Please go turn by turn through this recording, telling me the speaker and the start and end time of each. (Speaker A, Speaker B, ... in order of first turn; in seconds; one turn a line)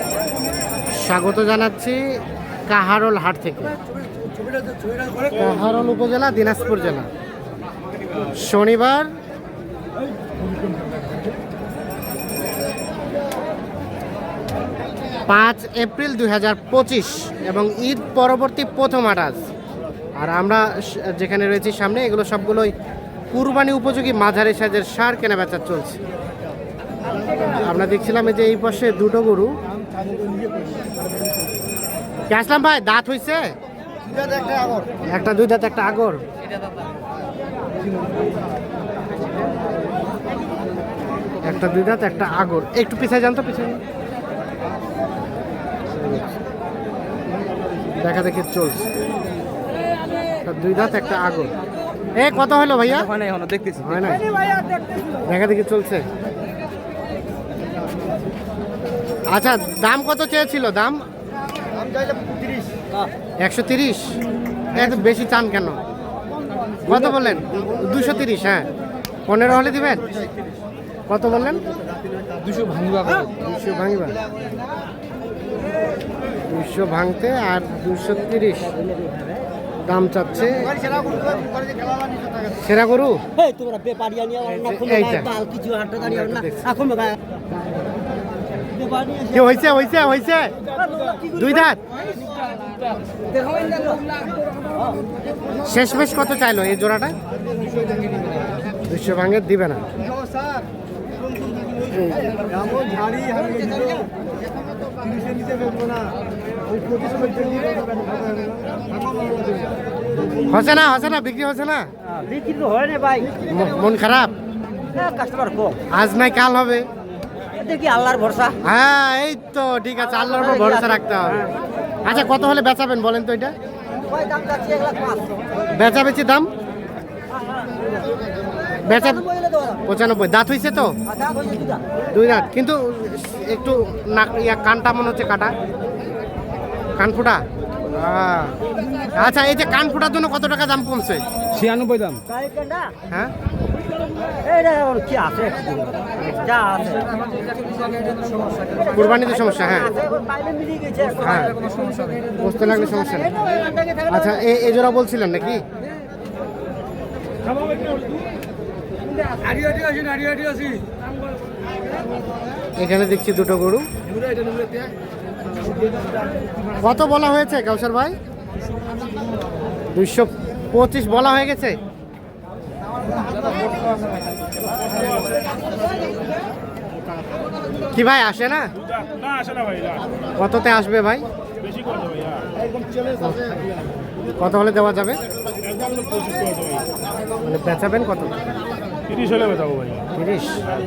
Speaker A: 0.9-3.8
Speaker A: 5.3-7.1
Speaker A: 8.2-9.1
Speaker A: 15.3-19.5
Speaker A: 20.2-22.7
Speaker A: 23.3-26.0
Speaker A: 27.4-29.6
Speaker A: 32.3-33.5
Speaker B: 34.1-34.9
Speaker A: 35.0-36.2
Speaker A: 41.4-43.8
Speaker A: 45.9-46.3
Speaker A: 48.0-48.9
Speaker A: 50.4-51.5
Speaker A: 52.1-53.1
Speaker C: 53.3-53.8
Speaker A: 53.8-54.3
Speaker B: 54.4-54.8
Speaker A: 55.2-56.1
Speaker A: 59.3-61.0
Speaker B: 61.8-63.0
Speaker A: 63.4-65.8
Speaker A: 66.8-68.7
Speaker A: 69.3-70.1
Speaker A: 71.1-71.6
Speaker C: 72.4-73.3
Speaker A: 73.3-74.2
Speaker A: 76.5-78.8
Speaker B: 78.8-79.5
Speaker A: 79.8-80.8
Speaker B: 80.9-82.2
Speaker A: 82.6-83.2
Speaker B: 83.3-87.2
Speaker A: 84.5-85.3
Speaker A: 86.0-86.7
Speaker B: 88.7-89.4
Speaker A: 89.3-90.6
Speaker B: 90.7-91.7
Speaker A: 91.3-91.8
Speaker B: 92.2-92.5
Speaker B: 93.3-94.2
Speaker A: 95.6-97.2
Speaker A: 98.9-99.8
Speaker A: 101.9-102.3
Speaker B: 102.6-104.1
Speaker B: 105.3-106.0
Speaker B: 106.9-108.0
Speaker A: 110.4-111.9
Speaker B: 112.0-113.4
Speaker A: 113.5-114.3
Speaker B: 114.9-115.8
Speaker A: 115.9-116.9
Speaker B: 117.5-118.6
Speaker A: 118.6-121.5
Speaker B: 120.1-121.3
Speaker A: 122.0-123.5
Speaker B: 124.0-125.5
Speaker A: 125.7-126.5
Speaker B: 127.3-128.1
Speaker A: 128.9-129.2
Speaker B: 128.9-129.8
Speaker A: 129.8-131.0
Speaker B: 131.1-131.9
Speaker A: 132.1-135.6
Speaker A: 137.0-138.6
Speaker A: 139.1-141.2
Speaker C: 141.6-142.2
Speaker B: 142.3-142.9
Speaker A: 143.1-143.3
Speaker B: 144.4-147.1
Speaker A: 146.2-146.5
Speaker C: 146.7-149.2
Speaker A: 148.9-149.9
Speaker B: 148.9-151.3
Speaker C: 151.2-152.3
Speaker A: 151.2-151.6
Speaker A: 152.4-153.4
Speaker B: 152.6-154.2
Speaker A: 154.1-155.6
Speaker B: 159.6-160.6
Speaker A: 162.8-163.9
Speaker A: 166.8-168.2
Speaker A: 169.9-171.8
Speaker A: 177.9-178.7
Speaker A: 180.4-181.3
Speaker A: 183.2-183.6
Speaker A: 184.4-185.2
Speaker A: 187.4-188.5
Speaker A: 190.1-190.6